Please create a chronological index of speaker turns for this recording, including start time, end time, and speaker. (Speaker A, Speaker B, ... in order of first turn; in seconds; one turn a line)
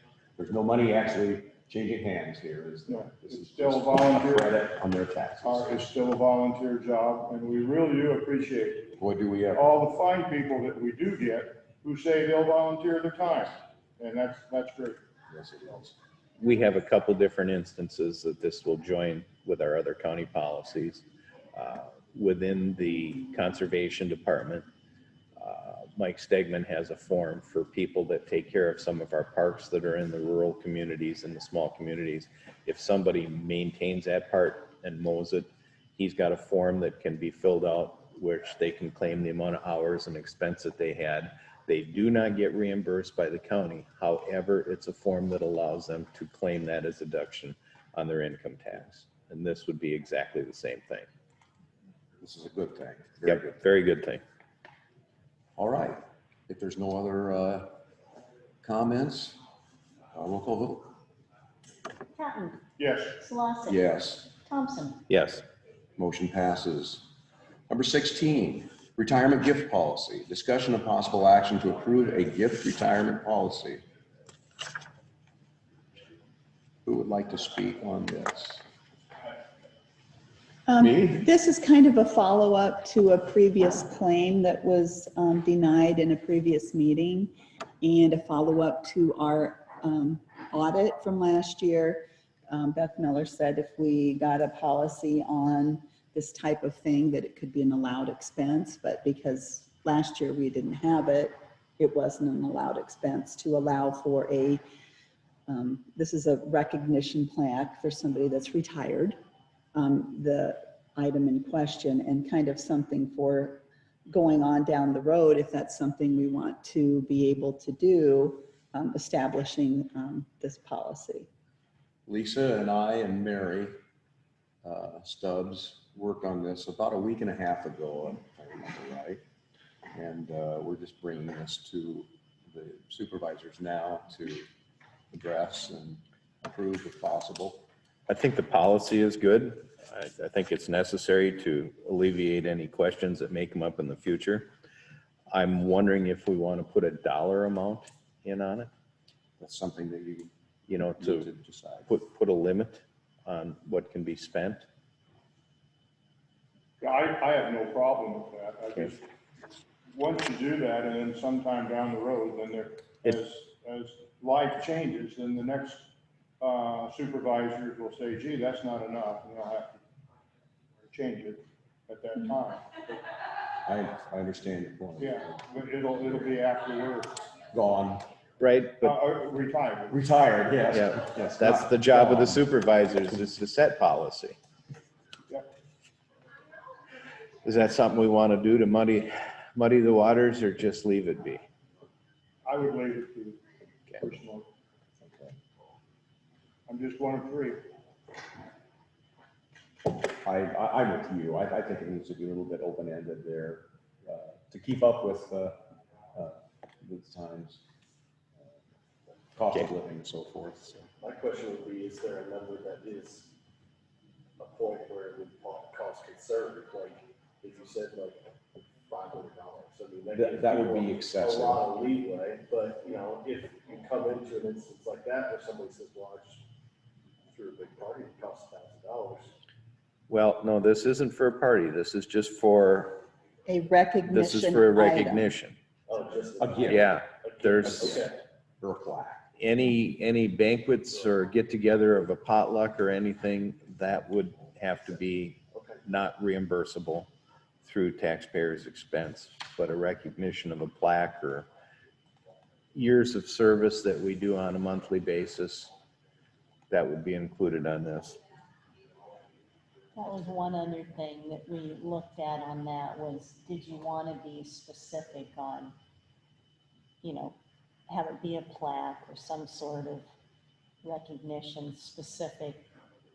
Speaker A: 0.4-5.8
Speaker B: 2.9-4.6
Speaker B: 5.4-9.0
Speaker A: 8.9-9.7
Speaker B: 9.5-15.0
Speaker A: 15.3-15.9
Speaker C: 16.4-24.7
Speaker C: 25.4-51.1
Speaker A: 52.2-53.6
Speaker C: 53.2-54.2
Speaker A: 55.6-57.8
Speaker A: 58.6-59.4
Speaker A: 60.1-60.9
Speaker D: 62.1-65.0
Speaker B: 62.8-63.2
Speaker A: 63.6-64.3
Speaker C: 65.1-65.4
Speaker A: 66.0-67.1
Speaker A: 67.7-73.8
Speaker A: 76.8-78.6
Speaker E: 80.7-104.6
Speaker A: 80.8-81.2
Speaker E: 105.5-109.2
Speaker E: 109.7-121.3
Speaker A: 122.1-123.7
Speaker A: 124.6-129.2
Speaker A: 129.9-134.5
Speaker A: 135.1-137.6
Speaker C: 138.1-144.5
Speaker C: 145.3-148.7
Speaker A: 149.4-150.3
Speaker C: 150.7-151.3
Speaker A: 151.0-151.9
Speaker C: 151.9-154.6
Speaker B: 156.8-159.0
Speaker B: 159.9-169.8
Speaker B: 170.9-172.8
Speaker A: 173.6-176.4
Speaker B: 175.0-177.3
Speaker A: 177.5-178.1
Speaker C: 178.4-178.9
Speaker B: 178.8-180.1
Speaker A: 179.9-182.4
Speaker C: 180.7-184.4
Speaker C: 187.4-191.4
Speaker B: 192.4-194.5
Speaker A: 195.0-195.3
Speaker B: 196.7-197.7
Speaker A: 200.2-205.6
Speaker A: 206.1-207.6
Speaker A: 209.3-210.9
Speaker F: 211.0-213.3
Speaker F: 214.4-218.3
Speaker F: 218.9-226.4
Speaker A: 220.1-221.7
Speaker F: 227.3-229.3
Speaker C: 230.1-233.0
Speaker E: 233.5-235.3
Speaker C: 234.1-235.6
Speaker F: 235.9-238.2
Speaker A: 236.4-236.9
Speaker C: 236.7-237.8
Speaker A: 237.6-239.2
Speaker C: 239.4-247.1
Speaker F: 245.5-245.8
Speaker C: 247.6-251.5
Speaker C: 252.7-255.7
Speaker C: 256.7-258.2
Speaker D: 259.9-265.8
Speaker D: 267.0-267.4
Speaker D: 267.9-270.1
Speaker D: 270.8-272.7